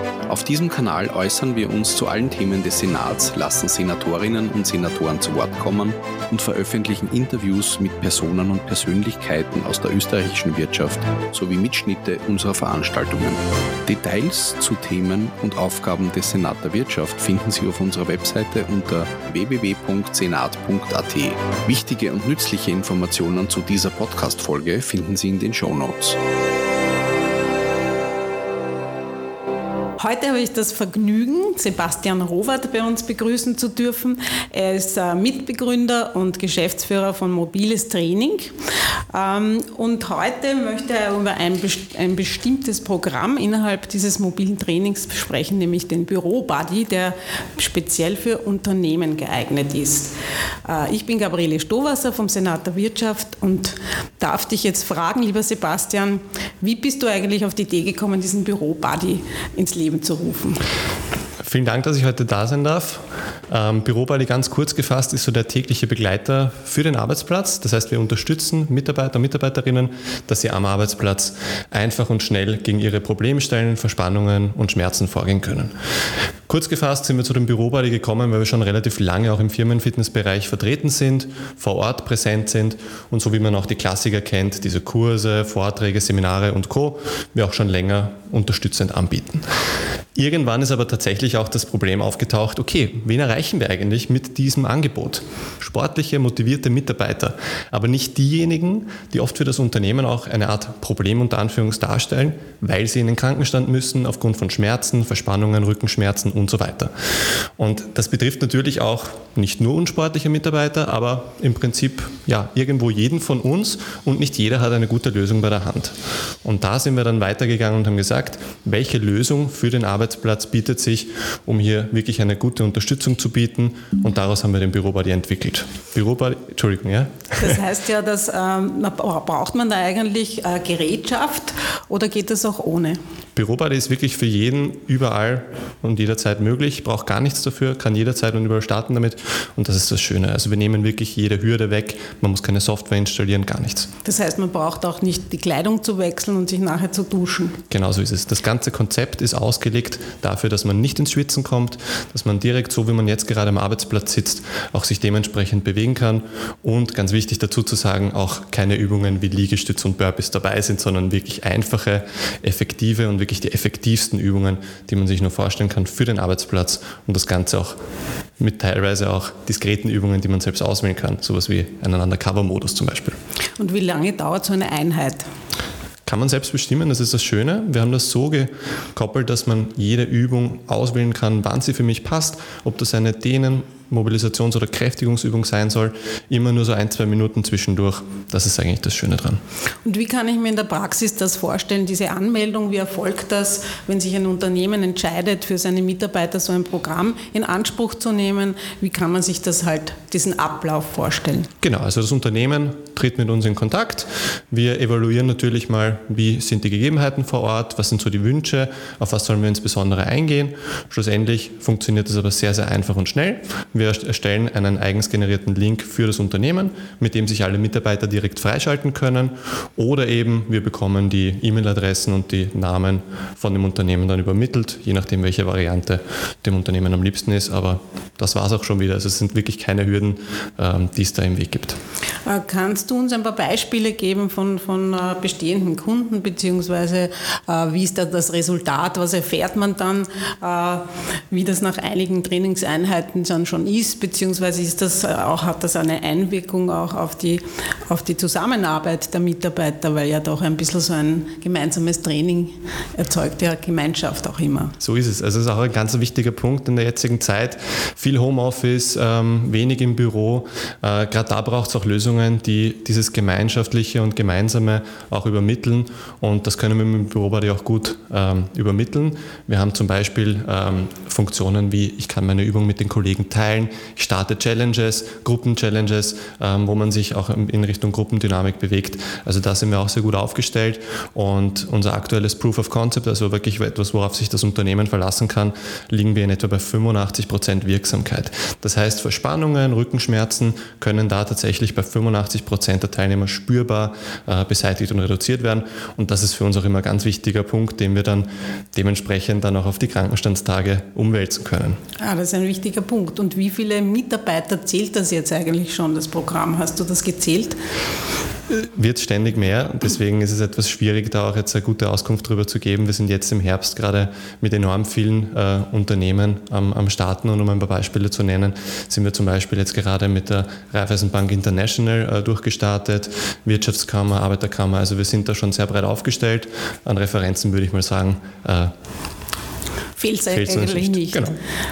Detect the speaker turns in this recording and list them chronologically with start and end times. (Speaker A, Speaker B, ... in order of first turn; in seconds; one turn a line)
Speaker A: 0.3-26.2
Speaker B: 30.0-38.5
Speaker B: 39.1-50.1
Speaker B: 50.6-60.6
Speaker C: 61.4-75.7
Speaker C: 76.5-89.4
Speaker C: 90.2-106.9
Speaker C: 107.6-127.5
Speaker B: 127.4-133.0
Speaker C: 133.3-143.9
Speaker B: 144.0-147.6
Speaker C: 147.7-167.8
Speaker C: 168.4-173.2
Speaker B: 173.6-175.2
Speaker C: 176.1-189.4
Speaker B: 189.8-201.5
Speaker C: 201.6-231.8
Speaker B: 232.2-254.7
Speaker C: 254.8-301.8
Speaker B: 302.0-307.6
Speaker C: 308.5-328.7
Speaker B: 329.9-331.3
Speaker C: 330.3-331.4